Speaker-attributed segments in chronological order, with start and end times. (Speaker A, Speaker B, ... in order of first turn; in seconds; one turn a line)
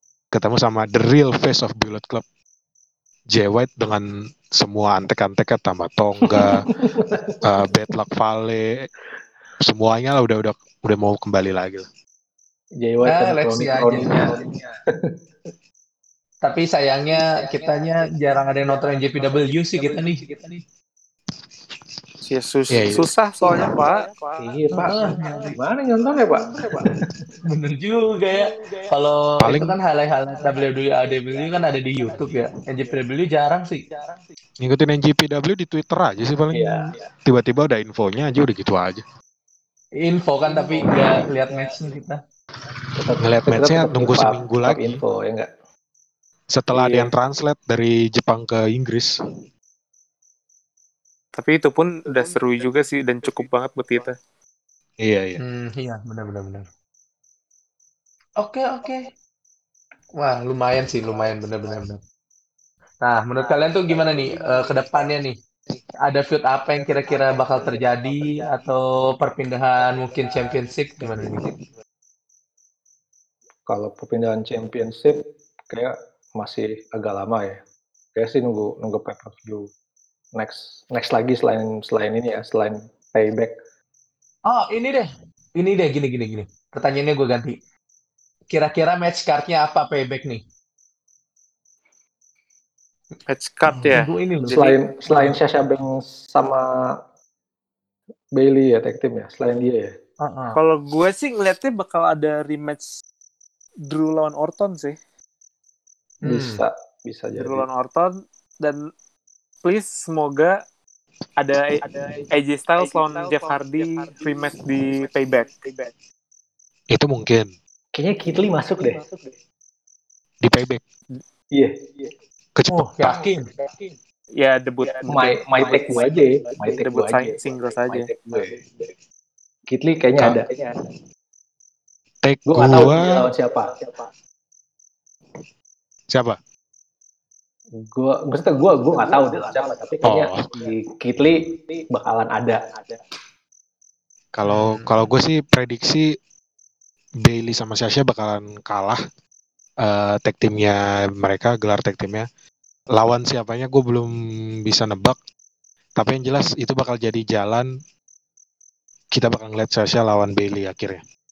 Speaker A: 0.3-2.2
Speaker A: 3.3-6.6
Speaker B: 6.3-7.4
Speaker A: 7.4-8.9
Speaker A: 9.6-11.9
Speaker B: 12.8-15.1
Speaker C: 13.1-14.4
Speaker C: 16.4-20.3
Speaker A: 21.3-22.2
Speaker D: 22.3-24.1
Speaker A: 22.7-23.1
Speaker B: 24.4-27.2
Speaker C: 24.7-25.6
Speaker C: 27.5-33.8
Speaker A: 29.4-29.8
Speaker A: 34.6-39.0
Speaker B: 36.5-37.1
Speaker C: 40.0-42.2
Speaker B: 43.0-45.5
Speaker A: 43.2-45.0
Speaker A: 46.5-49.1
Speaker B: 46.7-47.1
Speaker D: 51.4-54.1
Speaker A: 55.0-55.4
Speaker C: 55.4-56.7
Speaker C: 58.4-59.1
Speaker C: 60.2-62.0
Speaker C: 63.0-65.4
Speaker C: 66.0-71.5
Speaker B: 73.7-75.2
Speaker B: 75.7-77.6
Speaker B: 78.2-79.7
Speaker B: 80.3-83.5
Speaker C: 84.5-87.6
Speaker C: 88.5-90.4
Speaker D: 93.3-94.8
Speaker C: 93.7-95.4
Speaker B: 94.5-96.7
Speaker B: 98.4-99.9
Speaker C: 100.2-100.6
Speaker D: 100.5-102.9
Speaker D: 103.8-105.0
Speaker C: 106.2-106.6
Speaker B: 106.2-107.7
Speaker D: 107.4-108.8
Speaker D: 109.6-110.5
Speaker D: 111.4-115.7
Speaker A: 116.9-117.5
Speaker B: 117.9-119.0
Speaker A: 120.4-120.8
Speaker B: 121.5-122.1
Speaker A: 122.5-123.3
Speaker C: 122.7-123.5
Speaker D: 124.4-126.0
Speaker B: 125.1-127.3
Speaker D: 126.8-128.1
Speaker B: 128.0-128.6
Speaker B: 129.7-130.5
Speaker A: 132.2-133.1
Speaker B: 132.5-133.8
Speaker A: 136.1-136.4
Speaker B: 137.8-142.8
Speaker A: 140.0-140.5
Speaker A: 144.3-146.1
Speaker C: 144.5-145.1
Speaker A: 147.2-149.0
Speaker A: 149.8-152.3
Speaker A: 152.9-154.1
Speaker A: 154.7-155.2
Speaker A: 156.0-157.7
Speaker A: 159.1-161.0